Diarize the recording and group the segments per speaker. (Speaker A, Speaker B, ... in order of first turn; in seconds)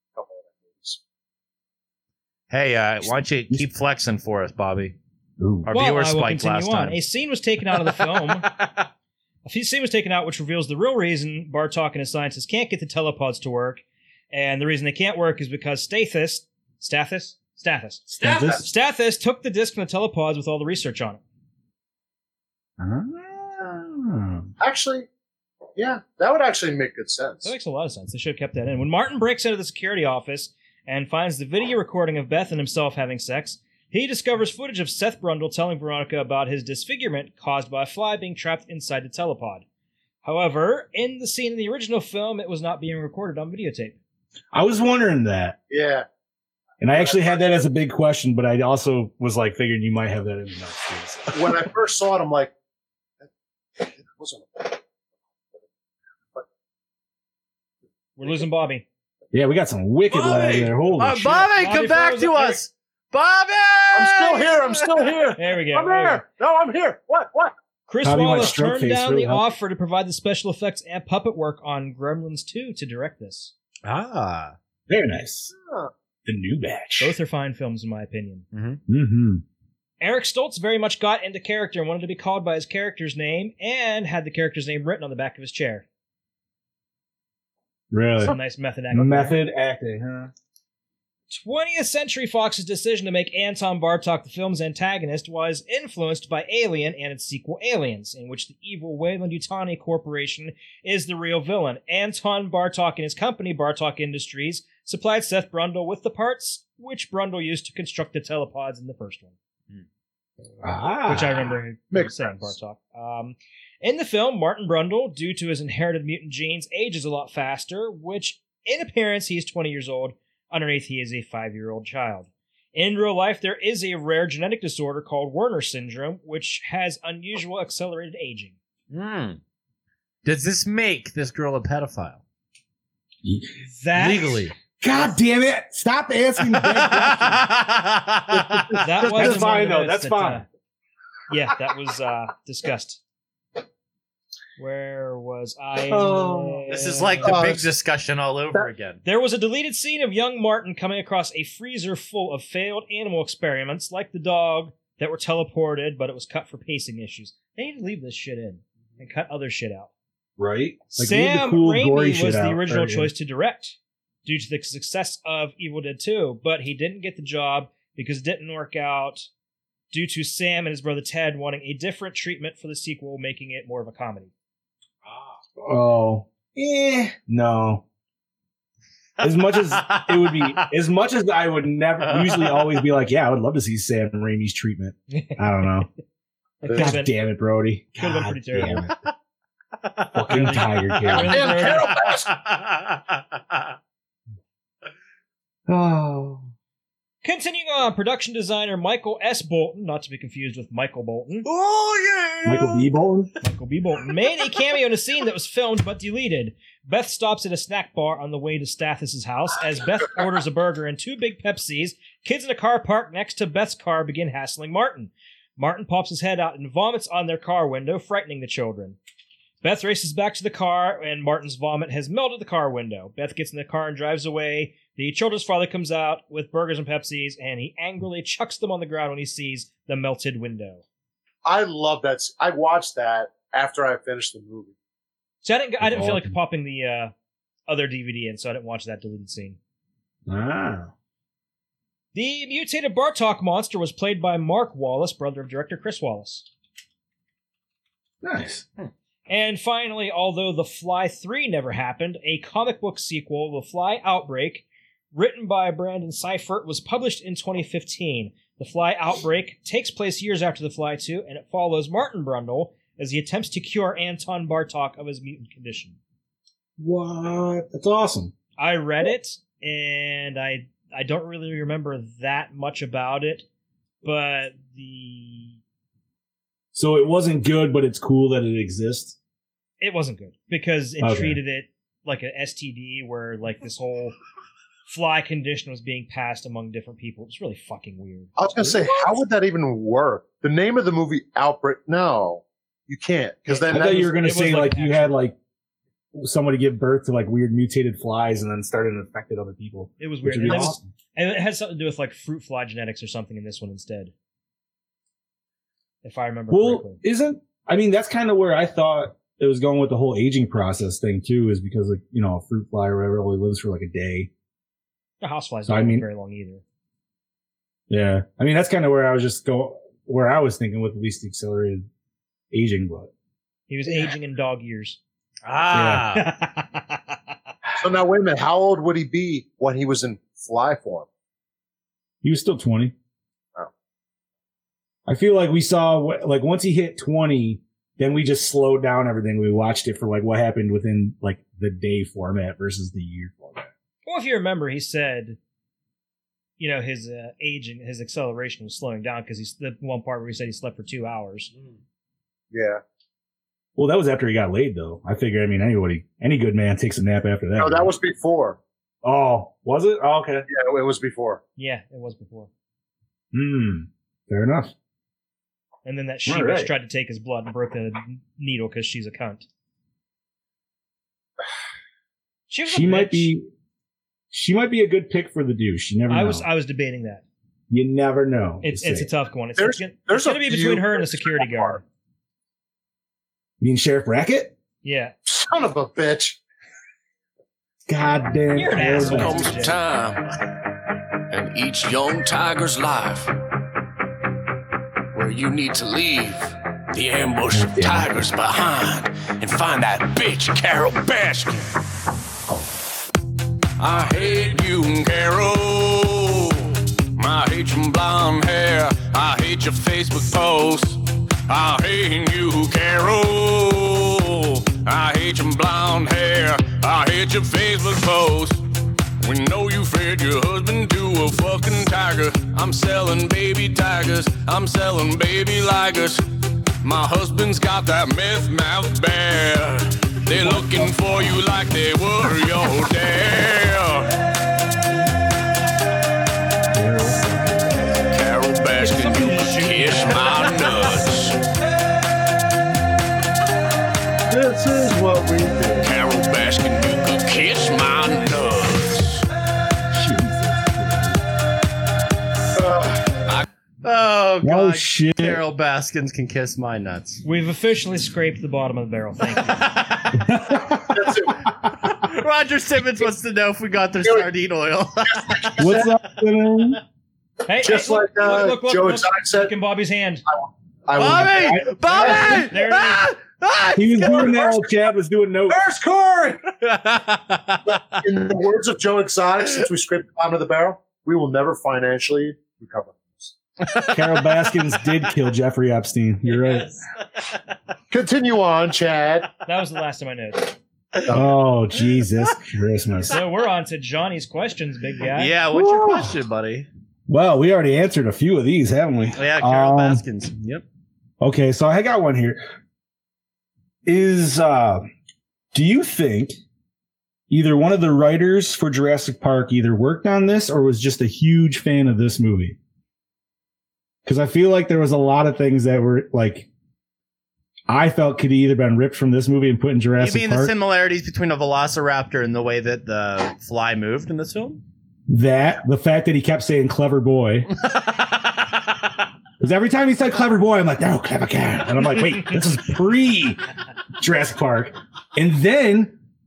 Speaker A: 0.1-1.0, 24.6-25.1, 25.8-27.5, 45.7-46.0, 51.3-52.5, 53.8-54.8, 63.9-67.5, 111.9-112.5, 147.2-147.7, 186.6-186.9, 191.1-192.3, 231.4-234.7, 288.4-294.1, 327.8-331.1, 352.5-352.8, 357.6-358.6, 360.5-361.4, 379.6-381.8, 385.3-386.4, 444.3-445.9, 452.6-453.1, 460.9-461.4, 465.1-465.8, 467.6-469.5, 470.9-472.5, 475.5-476.4, 478.0-483.3, 487.9-489.3, 491.1-491.4
Speaker B: 2.5-5.0, 5.7-7.0, 7.7-8.9, 60.1-65.1, 73.8-74.5, 78.5-78.8, 128.9-129.4, 130.2-132.2, 133.9-134.5, 136.5-139.2, 146.7-149.0, 179.2-180.7, 182.0-182.7, 189.8-190.1, 191.9-193.6, 325.4-326.3, 453.8-457.2, 459.5-460.3, 461.7-465.9, 471.0-474.6, 476.6-478.0, 486.3-486.7, 495.1-496.7, 499.1-500.6, 520.0-524.6
Speaker C: 5.4-5.7, 18.1-18.6, 22.8-24.5, 44.5-45.6, 46.8-51.6, 59.3-61.5, 68.0-69.5, 74.9-75.5, 76.2-77.2, 78.9-79.4, 87.9-88.4, 88.9-90.3, 110.6-111.5, 133.2-133.5, 134.8-137.5, 138.3-140.4, 145.9-146.7, 160.4-163.1, 175.6-177.8, 179.2-185.9, 186.7-188.9, 190.1-191.7, 195.7-196.5, 202.4-203.3, 235.8-236.3, 240.3-240.9, 248.2-248.7, 266.8-268.3, 276.7-279.1, 281.0-281.4, 293.7-295.4, 296.1-300.8, 306.5-314.3, 315.7-316.1, 317.9-321.8, 322.5-323.1, 325.7-326.1, 332.2-332.9, 335.1-343.7, 353.8-357.9, 359.0-360.5, 363.3-364.7, 366.3-366.7, 372.7-373.5, 374.3-376.4, 377.7-379.1, 383.6-384.6, 387.9-389.5, 397.5-398.1, 430.4-430.9, 436.7-437.7, 449.9-451.2, 454.4-455.4, 460.1-461.1, 465.6-466.8, 471.2-472.4, 473.8-475.6, 483.9-486.8, 491.1-493.2, 495.5-496.1, 497.1-500.0, 501.2-502.4, 503.8-504.9, 505.5-506.4, 507.3-512.6, 514.0-516.5, 517.7-520.5, 525.1-527.5, 529.4-533.4, 534.0-535.9
Speaker D: 5.7-8.5, 9.4-21.2, 27.4-39.6, 40.2-44.0, 58.2-58.8, 61.5-62.6, 65.4-66.2, 67.9-73.5, 77.0-78.4, 80.0-85.8, 88.2-89.4, 91.3-109.3, 111.1-128.5, 133.6-134.5, 138.8-140.4, 141.3-143.0, 144.6-147.3, 149.0-159.9, 160.9-169.3, 169.9-174.3, 185.1-185.7, 186.6-187.1, 188.0-188.9, 190.3-191.9, 197.2-201.4, 203.4-219.0, 219.6-230.8, 235.4-237.1, 237.7-239.6, 242.1-246.4, 249.3-265.9, 268.6-273.4, 274.0-275.6, 279.8-284.1, 284.9-288.3, 293.5-295.2, 300.0-304.1, 306.0-307.0, 315.2-316.6, 323.7-325.0, 326.1-327.2, 344.1-345.4, 346.6-351.5, 361.6-362.5, 365.8-369.4, 372.5-373.3, 376.1-377.2, 378.6-381.8, 384.8-385.1, 388.5-389.8, 438.8-440.6, 457.2-459.7, 467.4-470.2, 471.9-473.1, 489.4-490.6, 493.1-495.3
Speaker E: 389.1-390.2, 391.3-393.3, 395.1-401.6, 403.8-418.6, 419.2-426.2, 426.8-434.1, 438.1-441.4, 445.8-449.2